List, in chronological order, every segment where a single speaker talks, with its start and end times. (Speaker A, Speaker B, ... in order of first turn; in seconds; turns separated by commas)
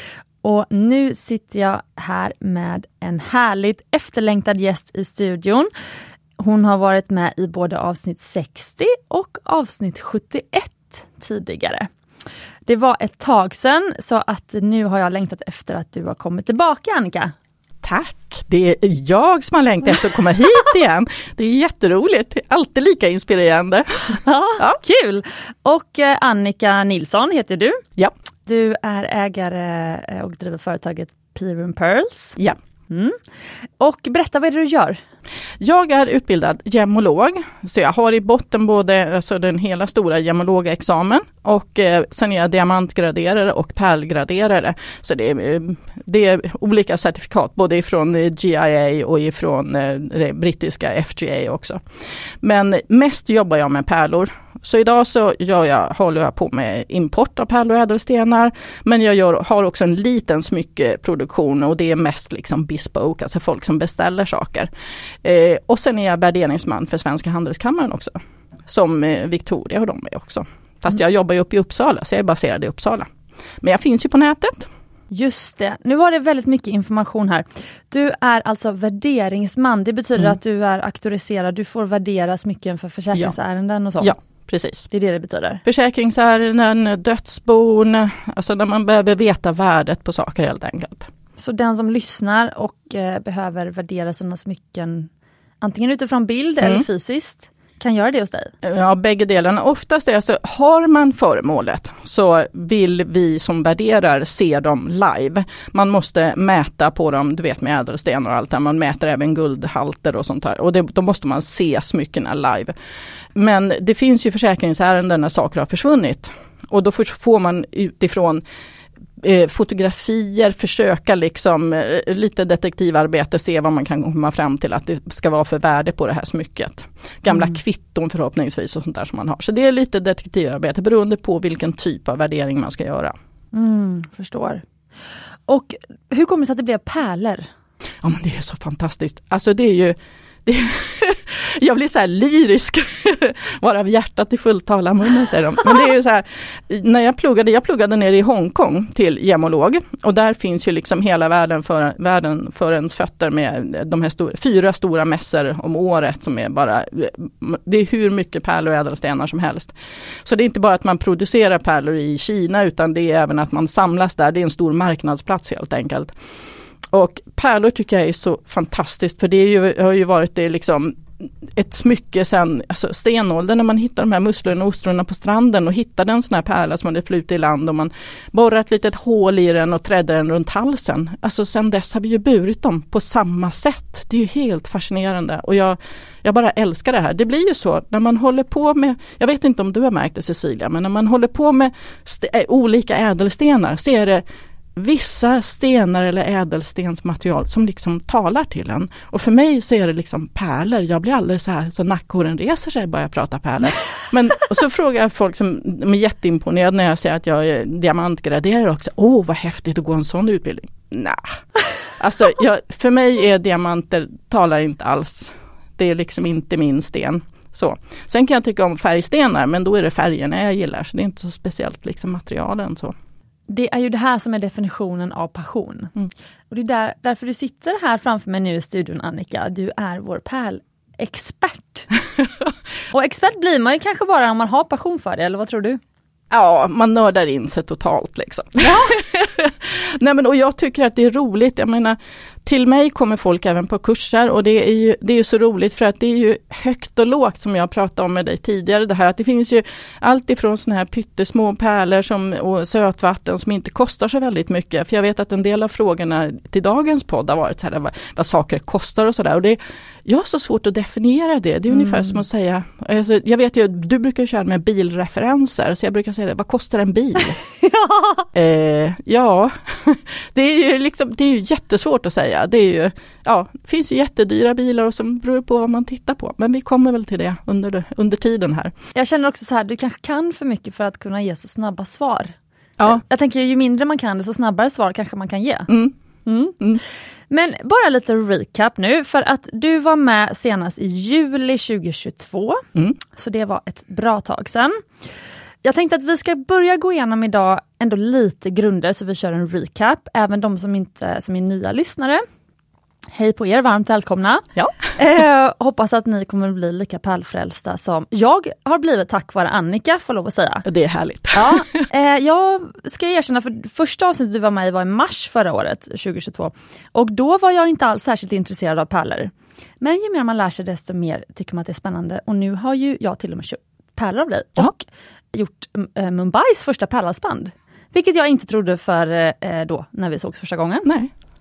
Speaker A: 0.4-5.7, Speaker A: 6.4-11.9, Speaker A: 12.7-17.3, Speaker B: 17.8-24.8, Speaker A: 24.2-27.8, Speaker A: 28.5-32.4, Speaker A: 32.9-33.2, Speaker A: 33.8-35.0, Speaker B: 35.6-51.8, Speaker B: 52.4-64.7, Speaker B: 65.2-73.1, Speaker B: 73.6-74.7, Speaker A: 75.1-84.1, Speaker B: 84.0-84.9, Speaker A: 84.9-85.6, Speaker B: 85.7-91.1, Speaker A: 91.4-95.1, Speaker A: 95.6-98.5, Speaker B: 98.6-112.7, Speaker B: 113.3-118.4, Speaker B: 119.2-133.1, Speaker A: 133.5-134.6, Speaker A: 135.5-137.5, Speaker B: 138.0-166.1, Speaker B: 166.9-194.2, Speaker B: 194.8-211.4, Speaker B: 212.0-222.9, Speaker A: 223.5-225.9, Speaker A: 226.5-231.9, Speaker A: 232.9-235.8, Speaker B: 236.3-267.4, Speaker A: 261.7-262.2, Speaker A: 267.5-268.3, Speaker B: 268.3-278.7, Speaker A: 278.9-285.7, Speaker A: 286.3-286.6, Speaker A: 287.3-294.9, Speaker A: 295.6-302.2, Speaker A: 303.1-310.7, Speaker B: 310.7-311.9, Speaker A: 311.3-330.9